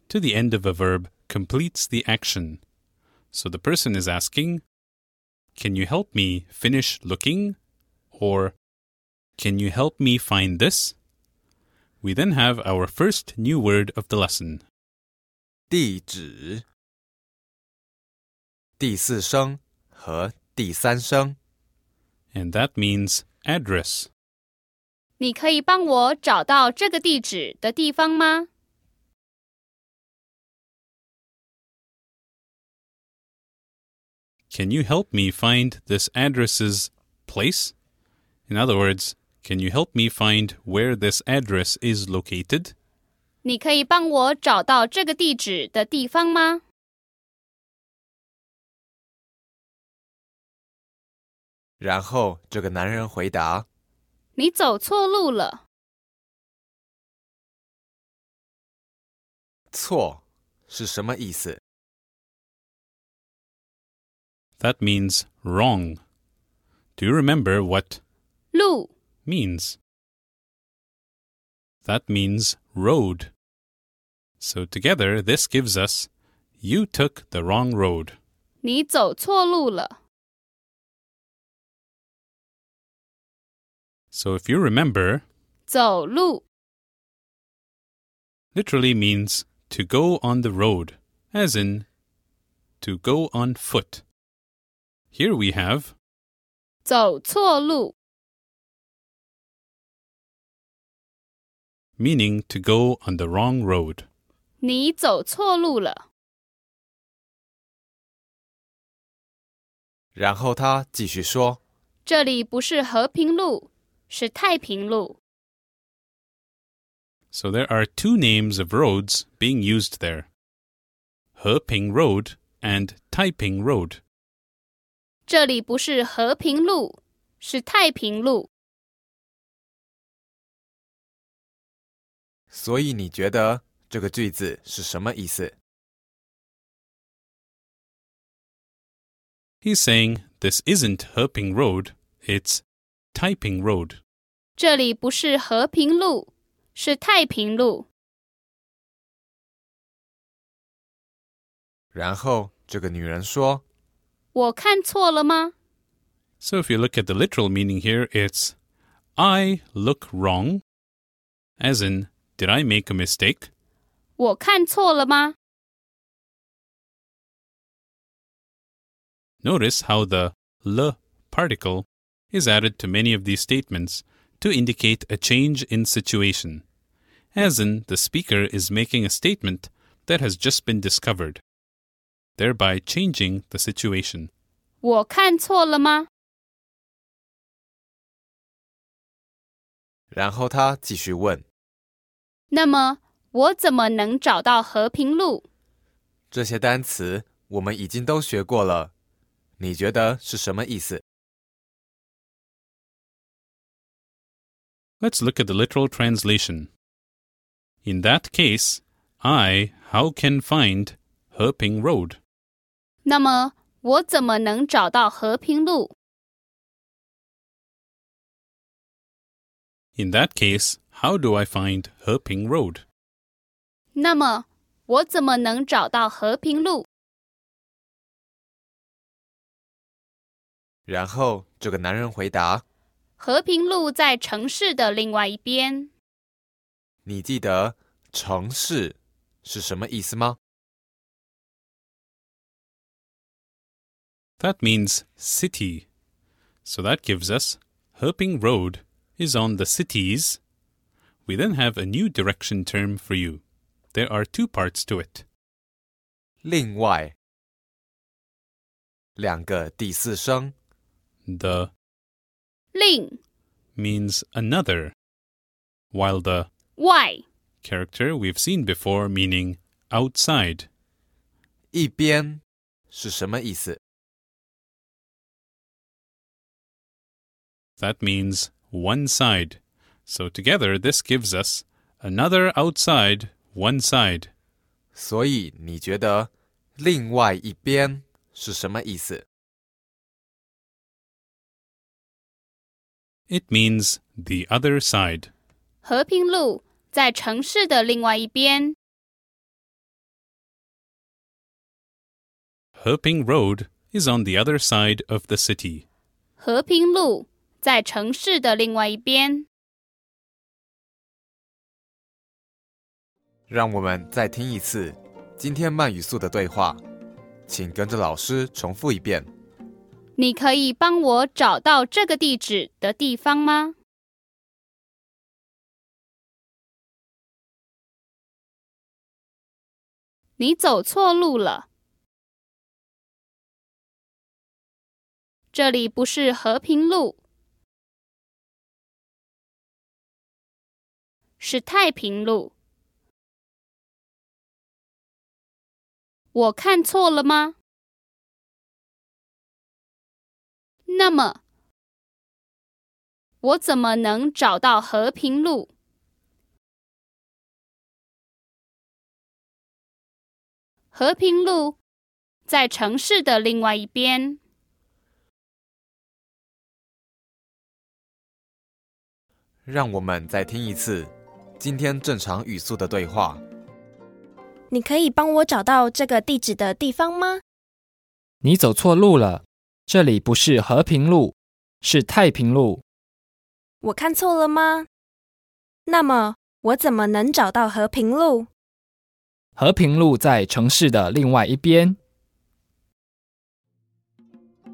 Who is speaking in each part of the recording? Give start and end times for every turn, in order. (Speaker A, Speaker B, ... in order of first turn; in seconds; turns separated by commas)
Speaker A: 0.1-2.6, Speaker A: 3.3-4.6, Speaker A: 5.5-7.6, Speaker A: 8.1-8.6, Speaker A: 9.4-11.0, Speaker A: 12.0-14.6, Speaker B: 15.7-16.6, Speaker B: 18.8-21.4, Speaker A: 22.3-24.1, Speaker C: 25.2-28.5, Speaker A: 34.5-37.7, Speaker A: 38.5-42.7, Speaker C: 43.4-46.6, Speaker B: 51.8-53.7, Speaker C: 54.4-55.6, Speaker B: 59.7-61.6, Speaker A: 64.6-66.0, Speaker A: 67.0-68.0, Speaker C: 68.5-68.9, Speaker A: 69.2-69.8, Speaker A: 71.8-73.3, Speaker A: 74.4-76.1, Speaker A: 76.6-78.2, Speaker C: 78.6-80.0, Speaker A: 84.1-85.2, Speaker C: 85.7-86.4, Speaker A: 88.5-91.9, Speaker A: 92.8-94.0, Speaker A: 95.1-95.9, Speaker C: 96.8-97.9, Speaker A: 102.0-104.1, Speaker C: 104.6-106.0, Speaker B: 110.2-111.6, Speaker C: 112.0-115.2, Speaker A: 117.3-120.3, Speaker A: 121.3-124.0, Speaker C: 125.3-128.5, Speaker B: 132.5-135.6, Speaker A: 139.6-142.6, Speaker A: 143.1-144.0, Speaker C: 144.6-147.9, Speaker B: 151.9-153.6, Speaker C: 154.3-155.5, Speaker A: 156.4-158.6, Speaker A: 159.2-160.6, Speaker A: 161.6-163.5, Speaker C: 164.2-165.3, Speaker A: 169.4-176.6, Speaker A: 177.3-181.4, Speaker A: 182.4-184.3, Speaker C: 184.8-186.1, Speaker B: 190.1-191.4, Speaker C: 192.5-195.4, Speaker B: 196.3-198.9, Speaker B: 199.6-201.0, Speaker A: 205.0-206.7, Speaker A: 207.8-212.2, Speaker C: 213.0-215.9, Speaker A: 220.0-222.8, Speaker C: 223.9-226.8, Speaker B: 230.9-232.6, Speaker C: 233.2-235.9, Speaker B: 237.0-240.4, Speaker A: 244.4-245.8, Speaker A: 246.7-250.4, Speaker A: 251.3-253.4, Speaker A: 253.9-255.2, Speaker B: 256.4-257.1, Speaker B: 259.2-260.5, Speaker A: 261.2-261.7, Speaker C: 262.7-263.2, Speaker A: 263.8-264.9, Speaker A: 265.9-266.5, Speaker C: 266.8-267.2, Speaker A: 267.6-270.7, Speaker B: 271.7-273.8, Speaker A: 277.8-284.3, Speaker B: 284.9-289.2, Speaker A: 293.3-295.3, Speaker C: 295.8-298.8, Speaker A: 302.8-305.9, Speaker C: 306.4-309.5, Speaker B: 313.5-316.8, Speaker B: 317.5-319.3, Speaker C: 320.1-323.8, Speaker C: 330.4-331.7, Speaker C: 335.5-337.2, Speaker C: 341.4-342.5, Speaker C: 346.3-347.5, Speaker C: 350.9-351.4, Speaker C: 353.4-355.7, Speaker C: 360.9-361.8, Speaker C: 362.5-364.4, Speaker B: 369.7-373.4, Speaker D: 374.7-377.4, Speaker E: 378.4-382.8, Speaker D: 383.8-384.9, Speaker D: 385.9-388.5, Speaker E: 389.6-392.0